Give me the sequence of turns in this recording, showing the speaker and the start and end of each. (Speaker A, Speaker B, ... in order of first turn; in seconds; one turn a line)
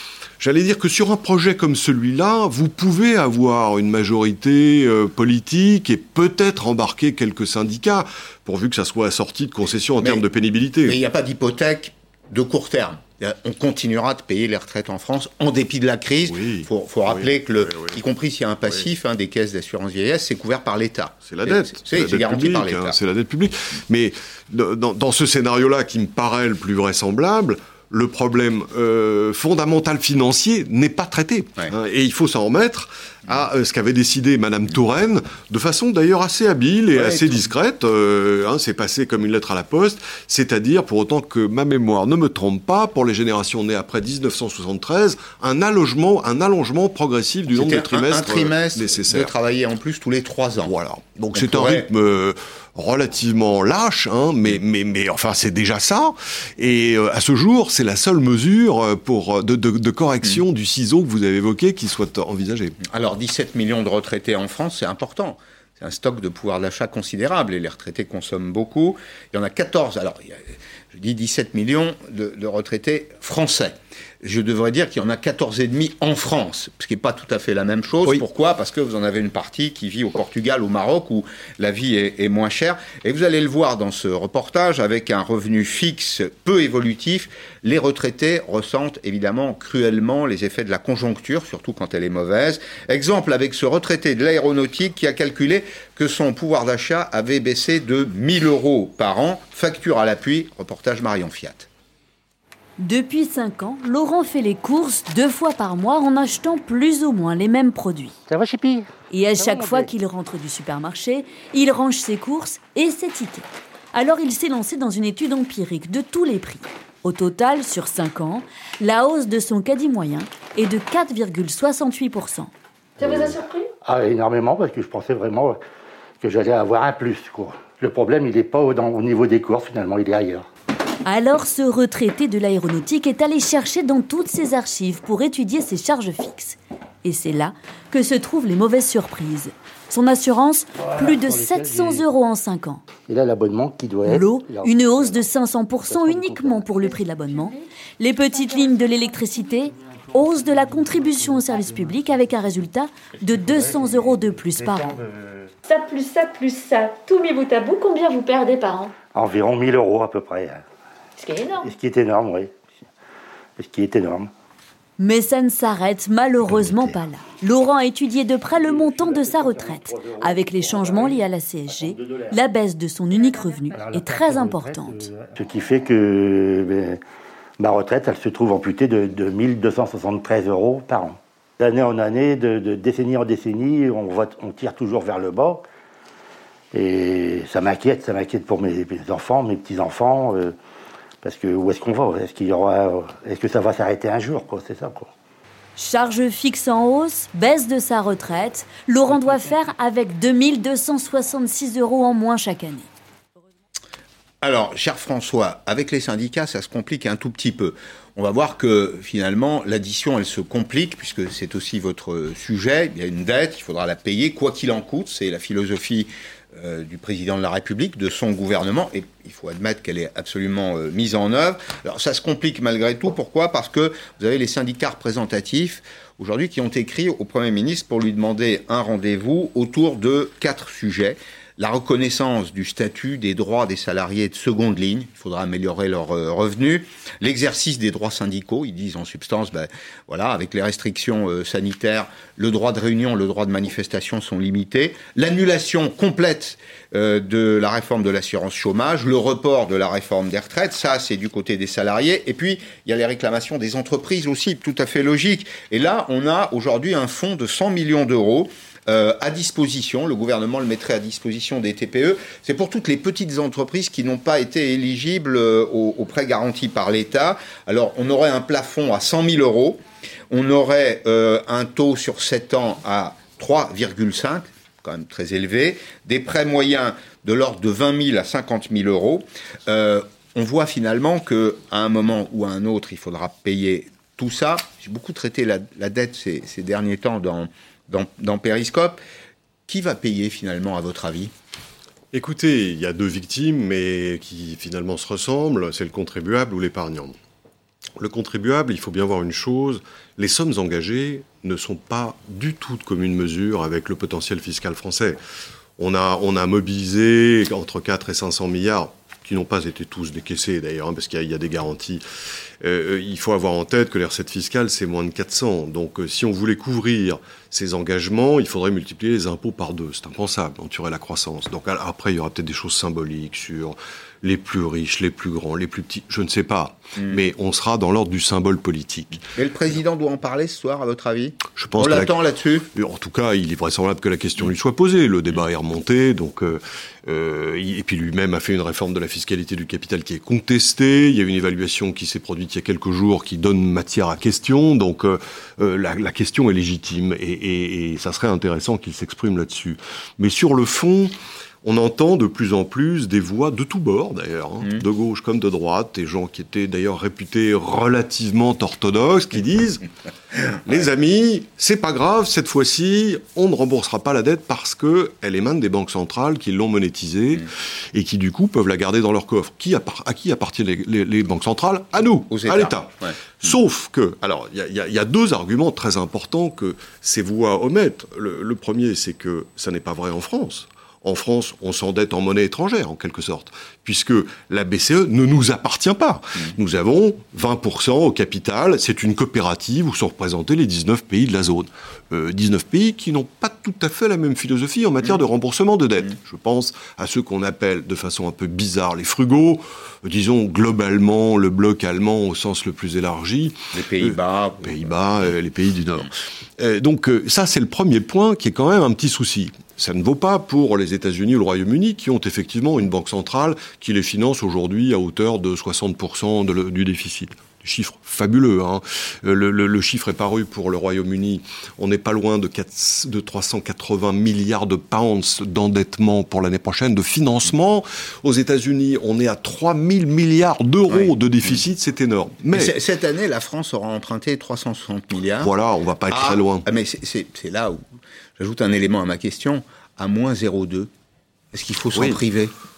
Speaker A: 0.4-11.0
Speaker B: 10.8-23.0
Speaker A: 16.2-18.0
Speaker A: 21.2-49.3
Speaker B: 37.0-37.2
Speaker B: 47.5-50.7
Speaker A: 50.6-62.8
Speaker B: 51.3-51.9
Speaker B: 62.9-101.7
Speaker C: 102.8-108.2
Speaker D: 108.3-109.9
Speaker C: 109.1-122.5
Speaker D: 123.0-125.6
Speaker E: 123.0-123.7
Speaker D: 126.2-130.5
Speaker C: 131.0-142.8
Speaker D: 140.8-142.0
Speaker D: 143.1-145.2
Speaker C: 144.1-155.0
Speaker D: 145.8-146.9
Speaker D: 150.4-152.0
Speaker D: 153.3-155.5
Speaker E: 155.7-158.9
Speaker D: 159.1-160.6
Speaker E: 161.2-161.7
Speaker D: 161.6-162.8
Speaker D: 163.6-164.3
Speaker C: 165.0-175.1
Speaker D: 168.4-172.4
Speaker E: 173.2-173.7
Speaker D: 173.7-177.0
Speaker D: 177.6-185.6
Speaker D: 186.7-190.5
Speaker D: 191.2-195.1
Speaker C: 195.8-202.9
Speaker D: 199.1-199.4
Speaker B: 204.4-289.0
Speaker B: 289.7-291.3
Speaker A: 292.1-297.1
Speaker A: 298.0-305.2
Speaker A: 305.8-312.0
Speaker A: 312.6-329.2
Speaker B: 329.4-332.7
Speaker A: 331.6-332.2
Speaker A: 332.7-359.9
Speaker A: 360.6-432.7
Speaker B: 372.3-373.1
Speaker B: 403.7-404.9
Speaker B: 432.5-435.5
Speaker A: 435.4-436.6
Speaker B: 436.1-437.8
Speaker B: 438.4-440.9
Speaker B: 441.5-442.5
Speaker A: 441.9-442.2